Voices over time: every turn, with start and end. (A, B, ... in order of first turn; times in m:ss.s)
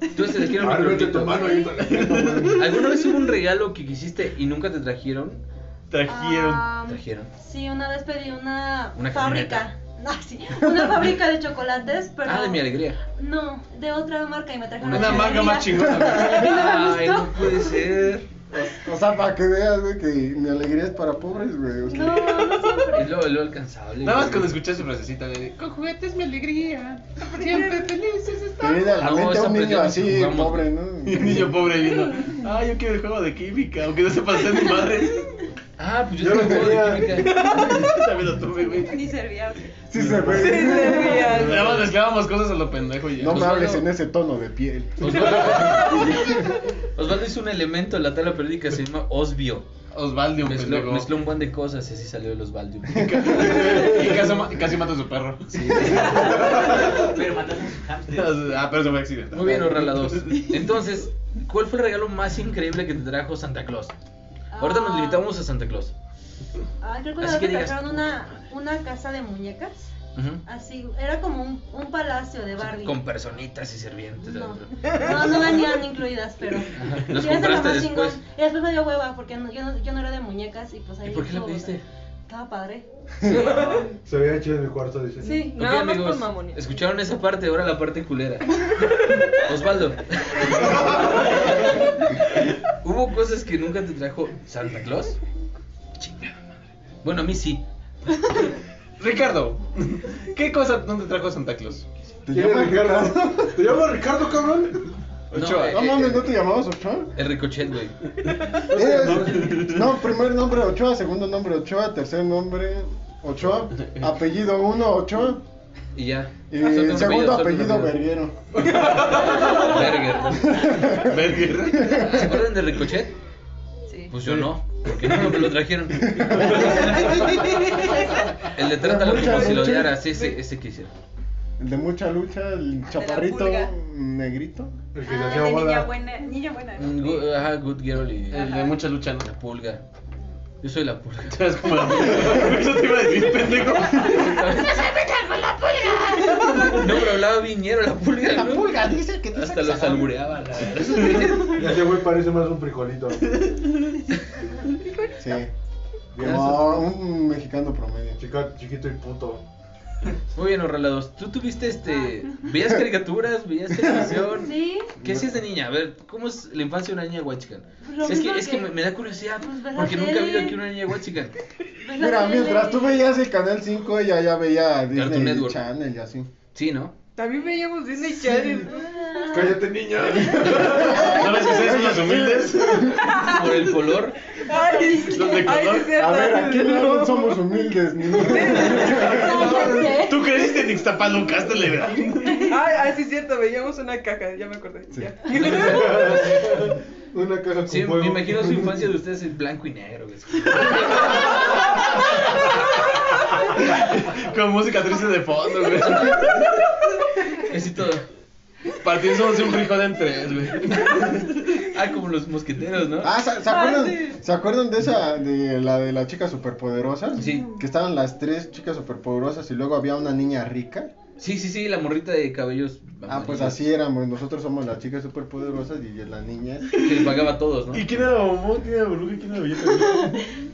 0:00.1-0:01.6 A
0:00.5-0:02.7 B
0:01.3-0:01.8 C
0:01.7-0:03.0 D
0:02.6-0:05.4 A
0:05.9-0:06.7 D
0:06.0-0:17.8 C
0:06.8-0:07.3 A
0:09.0-0:09.7 A
0:12.2-0:13.0 A
0:14.8-0:15.5 A
0:14.9-0:16.6 D
0:16.2-0:18.3 A
0:18.5-0:22.8 E
0:21.9-0:23.2 C
0:22.9-0:24.6 A
0:24.0-0:28.9 D
0:28.6-0:31.7 E
0:29.0-0:30.7 A
0:31.0-0:35.3 D
0:35.8-0:37.4 A
0:36.2-0:37.3 B
0:37.1-0:38.0 F
0:37.3-0:39.0 D
0:38.8-0:39.8 G
0:39.9-0:41.4 E
0:39.9-0:40.5 D
0:40.0-0:41.9 B
0:40.3-0:41.8 F
0:41.2-0:43.4 D
0:43.2-0:46.3 E
0:43.2-0:43.9 A
0:45.0-0:46.3 A
0:46.9-0:49.7 A
0:49.9-0:51.1 D
0:50.4-0:54.1 A
0:52.9-0:57.1 D
0:55.5-0:56.6 A
0:55.9-0:58.6 H
0:58.1-1:00.5 D
0:59.3-1:03.9 A
1:04.5-1:05.3 C
1:04.6-1:05.9 A
1:06.8-1:09.9 C
1:07.2-1:08.2 A
1:10.1-1:10.4 A
1:10.4-1:13.0 C
1:12.6-1:15.5 A
1:14.2-1:22.8 C
1:16.7-1:18.2 A
1:21.0-1:21.8 A
1:23.2-1:23.9 A
1:23.3-1:23.8 F
1:23.6-1:25.5 B
1:25.2-1:26.6 F
1:25.5-1:32.1 A
1:32.7-1:35.2 A
1:36.0-1:37.6 A
1:39.0-1:41.8 D
1:42.3-1:43.6 E
1:42.3-1:44.9 B
1:45.3-1:46.2 D
1:45.3-1:46.2 A
1:45.6-1:47.1 E
1:47.2-1:48.0 A
1:48.7-1:49.7 B
1:48.7-1:55.4 E
1:48.7-1:49.9 D
1:55.9-1:58.0 A
1:56.5-1:58.5 E
1:58.6-1:59.8 D
1:58.8-2:00.8 A
2:00.2-2:02.2 E
2:00.7-2:02.2 D
2:01.9-2:03.1 A
2:03.9-2:04.1 G
2:04.1-2:07.4 A
2:06.0-2:07.1 E
2:06.3-2:06.9 D
2:07.7-2:08.3 C
2:08.4-2:10.9 A
2:08.7-2:09.9 E
2:09.0-2:10.2 F
2:11.6-2:14.7 E
2:12.9-2:13.7 G
2:14.9-2:16.0 B
2:15.0-2:17.4 G
2:16.7-2:18.5 A
2:18.3-2:18.8 G
2:18.3-2:19.2 D
2:19.2-2:19.8 A
2:20.6-2:22.4 A
2:21.3-2:26.8 D
2:23.8-2:24.9 A
2:26.6-2:28.8 A
2:28.2-2:30.2 E
2:29.3-2:31.7 A
2:31.4-2:33.3 B
2:35.2-2:35.5 E
2:36.1-2:36.8 B
2:36.2-2:38.2 E
2:36.2-2:36.7 A
2:38.2-2:39.4 B
2:40.3-2:51.4 A
2:44.2-2:44.9 C
2:45.0-2:45.4 E
2:47.8-2:50.6 C
2:51.8-2:53.0 C
2:51.9-2:56.3 E
2:54.9-2:55.6 A
2:56.5-2:56.9 A
2:57.2-2:58.8 F
2:58.6-2:59.6 C
2:59.3-3:01.3 B
3:00.1-3:03.0 E
3:00.4-3:03.2 D
3:03.0-3:03.6 F
3:03.1-3:04.2 A
3:04.5-3:07.5 F
3:04.5-3:05.6 C
3:05.0-3:06.0 D
3:05.9-3:09.6 E
3:08.1-3:09.2 F
3:08.7-3:12.6 D
3:08.7-3:10.4 C
3:08.7-3:10.0 B
3:12.2-3:12.6 C
3:12.4-3:16.2 F
3:15.3-3:18.9 B
3:15.3-3:16.6 A
3:17.7-3:21.6 A
3:23.5-3:26.5 D
3:25.9-3:26.2 A
3:27.5-3:28.0 A
3:28.8-3:31.6 D
3:31.6-3:33.1 A
3:33.0-3:40.9 E
3:33.4-3:34.2 C
3:37.2-3:37.5 A
3:41.2-3:43.7 A
3:43.1-3:46.7 E
3:46.8-3:47.0 D
3:46.8-3:47.9 A
3:47.7-3:50.3 D